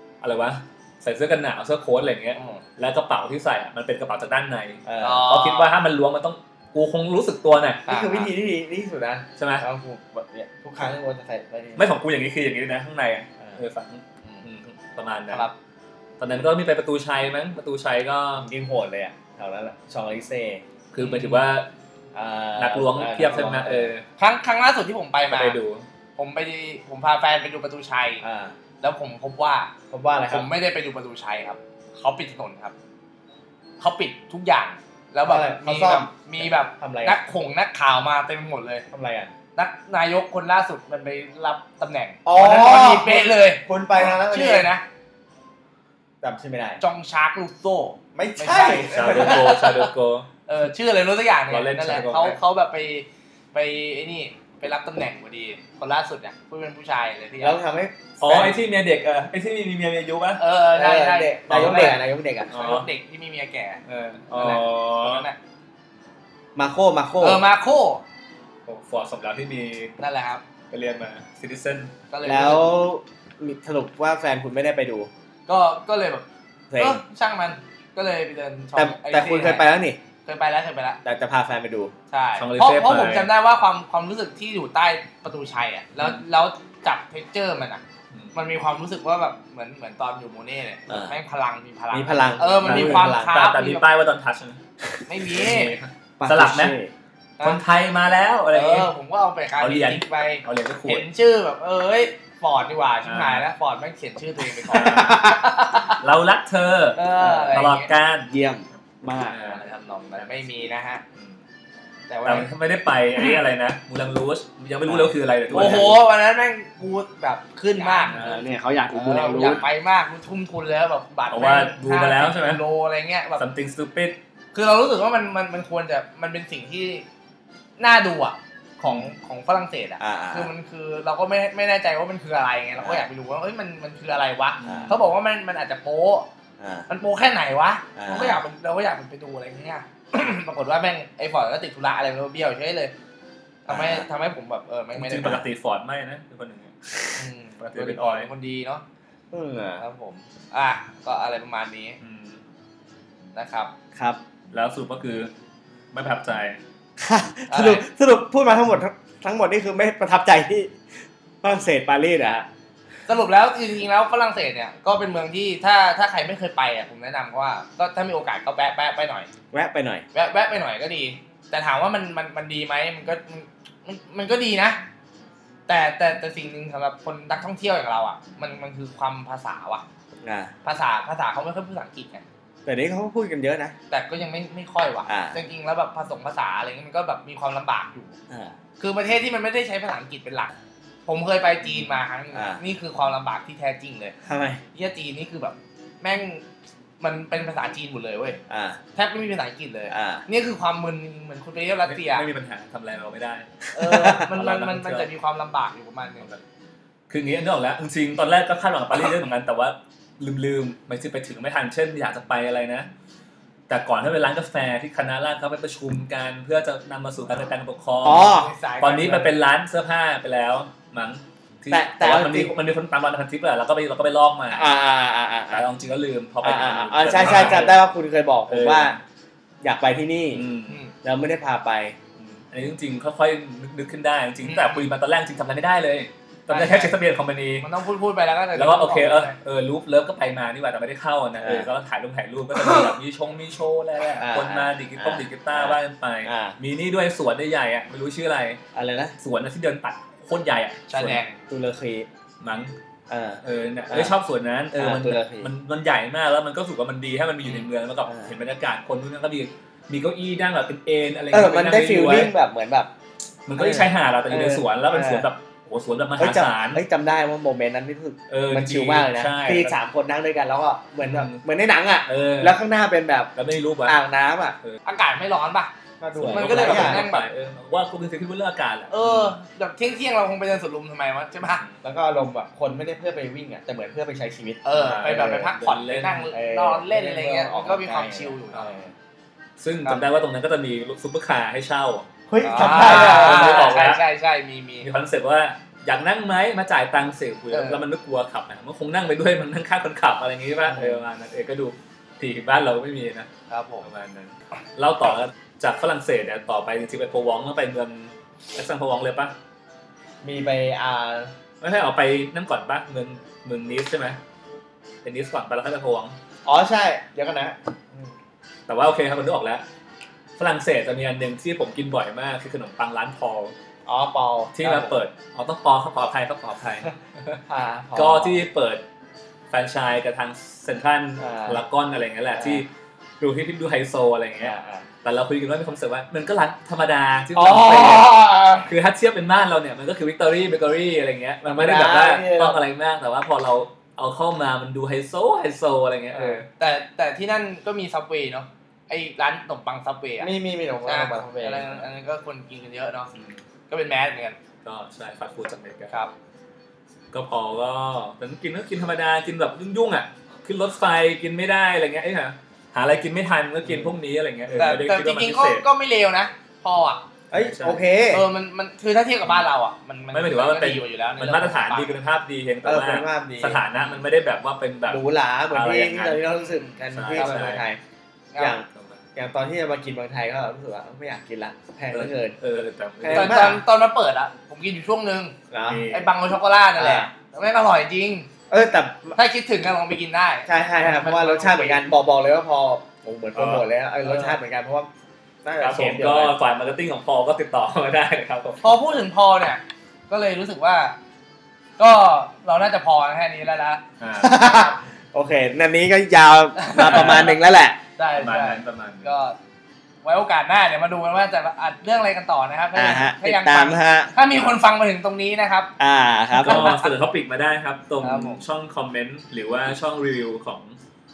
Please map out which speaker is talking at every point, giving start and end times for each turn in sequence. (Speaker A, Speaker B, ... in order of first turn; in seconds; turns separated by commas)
Speaker A: 0.2-7.8, Speaker B: 2.4-2.6, Speaker C: 4.8-5.3, Speaker B: 5.0-5.7, Speaker B: 7.9-8.3, Speaker C: 7.9-11.9, Speaker A: 9.4-9.7, Speaker A: 11.8-15.5, Speaker B: 15.3-15.6, Speaker A: 16.2-18.5, Speaker C: 18.4-20.6, Speaker A: 20.9-21.7, Speaker B: 21.0-21.4, Speaker C: 22.1-23.9, Speaker A: 22.6-24.1, Speaker B: 24.2-25.6, Speaker A: 25.3-25.9, Speaker B: 26.2-28.2, Speaker C: 28.2-28.6, Speaker B: 28.8-29.7, Speaker C: 29.9-30.5, Speaker B: 30.3-32.7, Speaker B: 33.8-38.9, Speaker C: 35.2-37.2, Speaker C: 38.9-39.3, Speaker B: 39.6-44.8, Speaker C: 42.2-44.7, Speaker C: 46.2-46.8, Speaker B: 46.8-49.9, Speaker C: 48.1-49.6, Speaker A: 48.9-50.3, Speaker B: 50.5-57.6, Speaker A: 51.5-52.4, Speaker C: 57.4-58.6, Speaker A: 58.2-60.4, Speaker B: 60.4-63.8, Speaker C: 60.7-62.5, Speaker A: 62.5-62.9, Speaker A: 63.9-65.3, Speaker B: 64.3-65.4, Speaker C: 66.5-67.4, Speaker B: 67.2-68.0, Speaker A: 68.7-69.9, Speaker B: 70.0-70.4, Speaker A: 70.7-71.9, Speaker B: 72.1-72.7, Speaker C: 72.2-75.1, Speaker B: 75.5-79.7, Speaker C: 76.7-77.0, Speaker C: 78.8-80.0, Speaker B: 80.3-81.0, Speaker C: 81.0-81.9, Speaker B: 82.1-87.8, Speaker A: 82.4-83.3, Speaker B: 88.3-93.8, Speaker C: 90.9-91.2, Speaker C: 91.9-93.4, Speaker A: 92.6-94.6, Speaker B: 95.1-95.8, Speaker A: 95.3-96.8, Speaker C: 96.2-96.9, Speaker A: 97.4-98.9, Speaker B: 98.5-106.0, Speaker A: 99.6-101.1, Speaker A: 103.0-103.5, Speaker A: 104.7-107.0, Speaker C: 104.7-105.1, Speaker B: 107.0-107.9, Speaker C: 107.2-107.7, Speaker A: 107.5-108.3, Speaker C: 108.3-109.6, Speaker A: 109.2-110.4, Speaker B: 109.5-111.0, Speaker B: 112.1-112.5, Speaker A: 112.2-116.0, Speaker C: 114.9-116.0, Speaker B: 115.5-123.5, Speaker C: 117.8-119.6, Speaker A: 118.1-118.4, Speaker A: 121.3-122.6, Speaker A: 123.4-124.2, Speaker B: 124.5-127.0, Speaker B: 127.8-136.3, Speaker A: 128.8-129.1, Speaker C: 130.0-130.5, Speaker C: 132.8-133.1, Speaker A: 134.6-135.0, Speaker C: 134.6-135.0, Speaker C: 136.6-136.9, Speaker B: 136.9-142.9, Speaker C: 138.0-138.4, Speaker B: 143.7-145.4, Speaker C: 143.7-144.1, Speaker A: 145.0-147.0, Speaker B: 147.2-148.8, Speaker A: 147.6-148.3, Speaker C: 149.3-149.8, Speaker B: 149.8-152.0, Speaker A: 152.0-152.4, Speaker B: 153.3-153.7, Speaker A: 154.5-155.3, Speaker A: 155.9-156.6, Speaker C: 157.0-160.7, Speaker B: 157.5-157.9, Speaker C: 161.4-162.5, Speaker B: 163.1-169.3, Speaker C: 169.5-170.1, Speaker B: 170.1-174.8, Speaker B: 175.7-179.8, Speaker C: 180.2-180.5, Speaker B: 180.7-182.2, Speaker C: 182.7-183.7, Speaker B: 183.9-188.2, Speaker C: 185.1-185.4, Speaker C: 188.3-188.6, Speaker B: 188.8-190.5, Speaker B: 191.1-194.2, Speaker C: 192.3-192.6, Speaker C: 194.2-194.6, Speaker B: 194.8-196.4, Speaker B: 197.0-198.4, Speaker C: 198.5-198.8, Speaker B: 198.9-202.3, Speaker C: 199.9-200.2, Speaker A: 201.8-205.1, Speaker B: 203.7-206.3, Speaker C: 203.8-204.3, Speaker A: 207.1-212.9, Speaker A: 213.7-224.7, Speaker C: 218.0-218.5, Speaker B: 218.2-219.3, Speaker C: 221.7-222.6, Speaker C: 224.5-225.7, Speaker A: 225.5-227.8, Speaker C: 226.4-229.0, Speaker B: 227.2-227.7, Speaker A: 228.5-229.0, Speaker C: 229.6-230.5, Speaker A: 230.3-230.8, Speaker B: 230.7-230.9, Speaker C: 231.0-232.0, Speaker A: 232.2-237.7, Speaker B: 234.4-234.9, Speaker B: 236.5-237.0, Speaker B: 237.6-239.4, Speaker A: 238.6-248.6, Speaker C: 241.4-241.7, Speaker C: 244.2-246.6, Speaker C: 248.8-249.1, Speaker A: 249.2-251.2, Speaker B: 250.9-251.4, Speaker C: 251.5-252.1, Speaker A: 252.4-252.7, Speaker C: 253.1-254.2, Speaker A: 253.4-262.3, Speaker C: 254.7-255.5, Speaker C: 258.1-258.3, Speaker C: 261.3-262.9, Speaker A: 263.5-266.8, Speaker C: 263.6-265.3, Speaker C: 266.2-273.3, Speaker A: 268.3-269.8, Speaker A: 271.0-271.4, Speaker A: 272.1-272.6, Speaker A: 273.4-274.0, Speaker C: 273.9-274.6, Speaker B: 274.9-275.7, Speaker C: 276.0-277.1, Speaker A: 276.1-279.4, Speaker B: 276.2-277.3, Speaker B: 278.9-281.6, Speaker C: 281.8-285.5, Speaker B: 284.6-288.7, Speaker A: 284.8-286.3, Speaker C: 286.3-288.9, Speaker A: 289.6-294.0, Speaker C: 292.3-293.7, Speaker B: 292.4-294.9, Speaker A: 294.8-303.3, Speaker B: 297.5-297.8, Speaker C: 300.7-301.0, Speaker B: 303.5-303.9, Speaker A: 303.8-309.3, Speaker C: 310.2-311.3, Speaker A: 311.6-314.2, Speaker A: 315.0-316.2, Speaker C: 316.4-318.1, Speaker A: 318.7-319.6, Speaker A: 320.4-323.5, Speaker C: 323.9-324.9, Speaker A: 324.6-327.4, Speaker C: 327.5-328.4, Speaker A: 327.9-328.8, Speaker A: 329.5-332.7, Speaker C: 331.2-331.6, Speaker C: 332.4-332.6, Speaker A: 333.2-346.5, Speaker C: 334.4-334.9, Speaker C: 337.4-338.7, Speaker C: 341.4-342.6, Speaker C: 346.1-346.4, Speaker B: 346.5-350.3, Speaker C: 350.2-351.7, Speaker B: 350.9-353.1, Speaker B: 353.7-354.4, Speaker A: 354.6-355.9, Speaker A: 357.1-365.7, Speaker C: 363.6-363.9, Speaker C: 364.5-364.9, Speaker B: 364.6-367.1, Speaker C: 367.3-368.2, Speaker A: 367.3-367.8, Speaker B: 368.1-372.0, Speaker A: 370.1-376.3, Speaker C: 372.6-373.6, Speaker C: 374.9-377.8, Speaker B: 376.4-377.5, Speaker A: 376.9-377.6, Speaker C: 378.4-382.4, Speaker A: 378.7-379.0, Speaker A: 381.9-383.5, Speaker C: 383.0-383.6, Speaker B: 383.1-385.4, Speaker C: 385.5-385.9, Speaker A: 385.6-386.1, Speaker B: 385.9-388.3, Speaker C: 386.8-387.1, Speaker C: 388.5-389.2, Speaker B: 389.2-391.8, Speaker C: 390.5-394.9, Speaker A: 393.4-393.6, Speaker B: 394.0-394.4, Speaker C: 395.4-396.4, Speaker A: 395.6-398.7, Speaker B: 398.6-401.0, Speaker B: 401.8-403.8, Speaker A: 404.0-404.7, Speaker C: 404.2-407.8, Speaker B: 406.6-407.3, Speaker A: 406.8-407.4, Speaker B: 408.0-409.4, Speaker A: 408.2-409.1, Speaker B: 410.0-415.7, Speaker C: 412.8-414.1, Speaker C: 415.8-416.7, Speaker A: 416.4-420.8, Speaker B: 416.4-416.9, Speaker B: 418.0-418.4